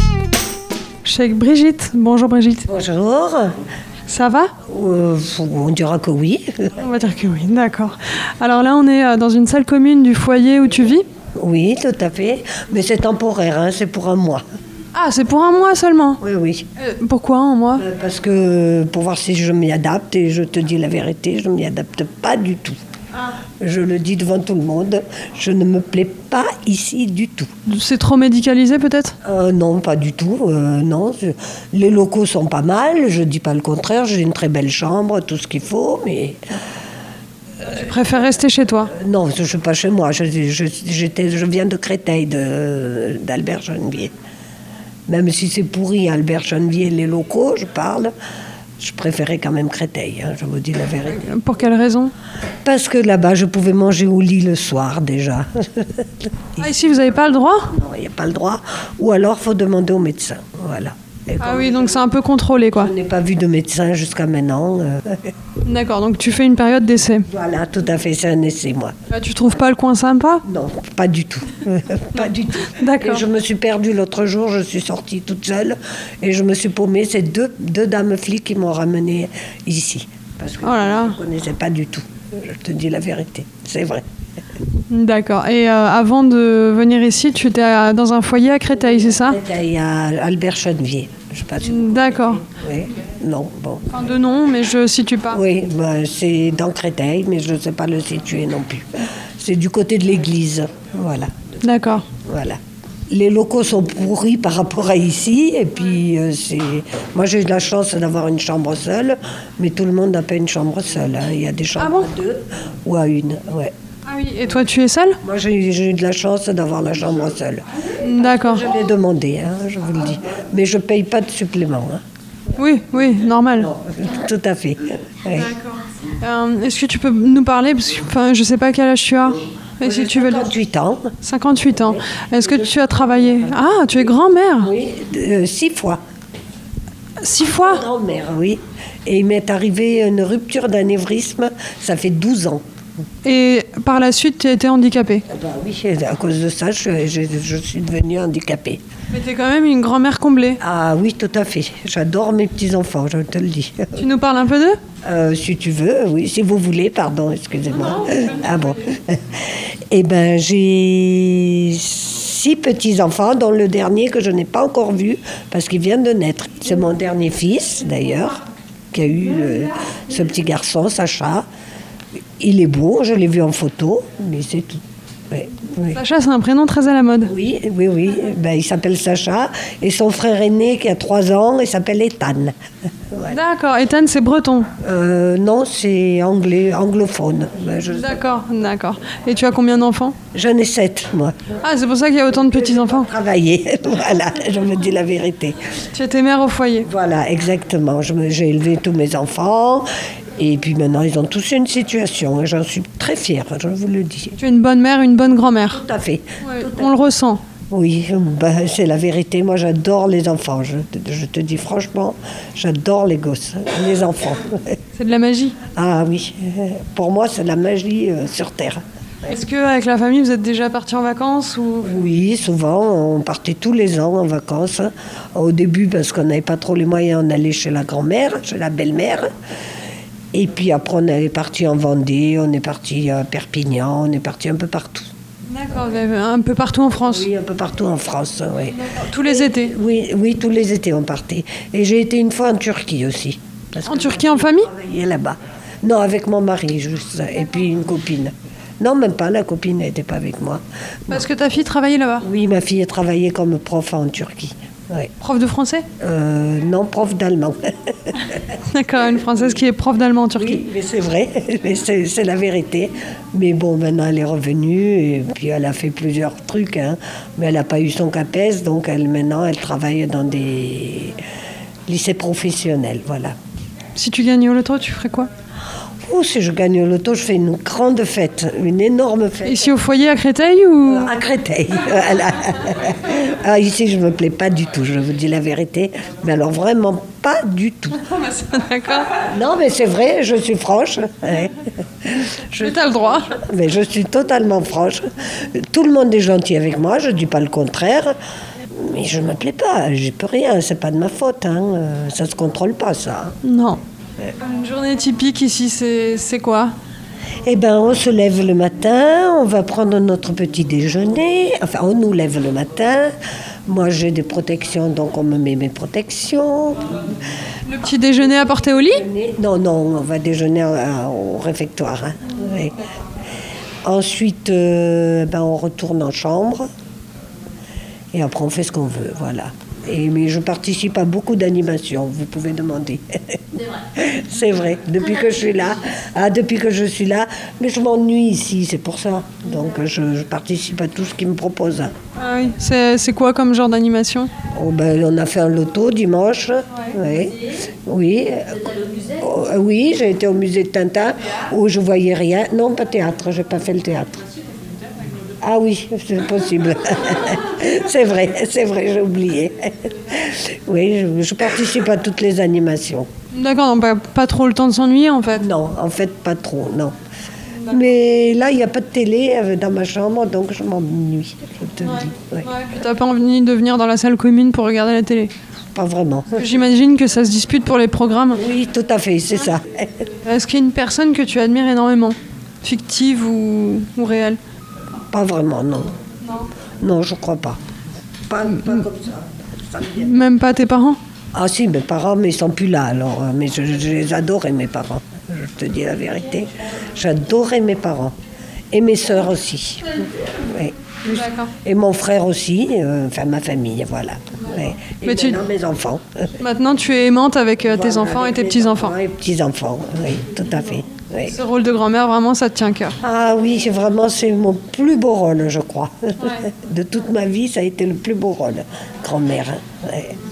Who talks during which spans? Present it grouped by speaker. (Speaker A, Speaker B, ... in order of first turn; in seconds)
Speaker A: 1.0-2.7, 4.1-4.5, 6.8-11.0, 14.9-16.2, 16.8-17.8, 27.6-29.2, 37.7-38.9, 51.1-52.1, 56.6-57.7, 61.4-62.9, 65.6-67.3, 69.1-70.4, 72.6-73.2, 80.6-81.2, 84.9-89.4, 91.6-92.4, 93.9-95.4, 101.6-102.1, 111.8-112.1, 114.0-115.2, 118.0-118.7, 122.5-123.7, 125.3-130.5, 131.2-134.7, 137.2-137.8, 143.2-145.2, 149.1-150.6, 153.9-154.8, 175.9-177.3, 183.2-184.7, 187.9-190.2, 191.6-193.1, 195.9-196.9, 204.4-205.8, 206.4-207.4, 214.9-215.6, 219.2-221.9, 235.5-237.3, 238.7-239.7, 243.8-244.7, 251.1-252.2, 255.2-255.8, 258.7-260.6, 273.9-275.3, 279.4-281.1, 288.0-289.2, 292.6-293.4, 303.4-303.8, 304.4-306.7, 317.6-319.0, 342.1-344.3, 363.3-365.5, 371.8-375.3, 376.3-378.4, 380.2-384.4, 389.9-391.0, 401.1-401.5, 405.0-405.4, 406.4-408.9, 411.2-412.9
Speaker B: 2.7-3.5, 4.7-6.7, 11.4-14.4, 16.2-16.6, 17.7-22.8, 23.6-27.5, 29.2-36.4, 38.9-44.1, 45.1-48.1, 48.8-51.2, 52.6-56.8, 57.7-62.0, 62.7-65.3, 67.3-68.9, 70.4-84.0, 89.2-93.9, 95.3-101.3, 102.2-102.6, 103.1-113.7, 115.2-117.7, 118.2-122.0, 123.8-125.5, 129.8-131.1, 131.8-132.2, 134.6-136.0, 137.4-142.6, 145.3-148.8, 150.6-154.0, 155.0-159.2, 159.9-171.4, 172.4-176.0, 177.2-182.5, 183.1-183.4, 184.8-188.2, 190.3-191.3, 192.3-195.6, 196.8-204.4, 205.7-207.0, 207.7-214.8, 215.7-218.8, 221.8-229.3, 230.3-235.1, 237.0-251.2, 252.2-255.1, 256.0-258.4, 260.3-271.2, 271.9-273.3, 276.1-279.7, 280.9-288.0, 289.1-298.1, 298.7-303.4, 307.4-313.1, 313.7-317.0, 318.9-322.8, 323.8-326.7, 328.1-341.9, 344.5-354.2, 355.4-363.1, 365.4-366.9, 367.7-372.5, 375.7-376.4, 378.3-379.9, 385.1-385.9, 386.8-387.6, 388.3-390.1, 391.3-398.1, 398.7-406.0, 407.6-411.4, 413.0-420.2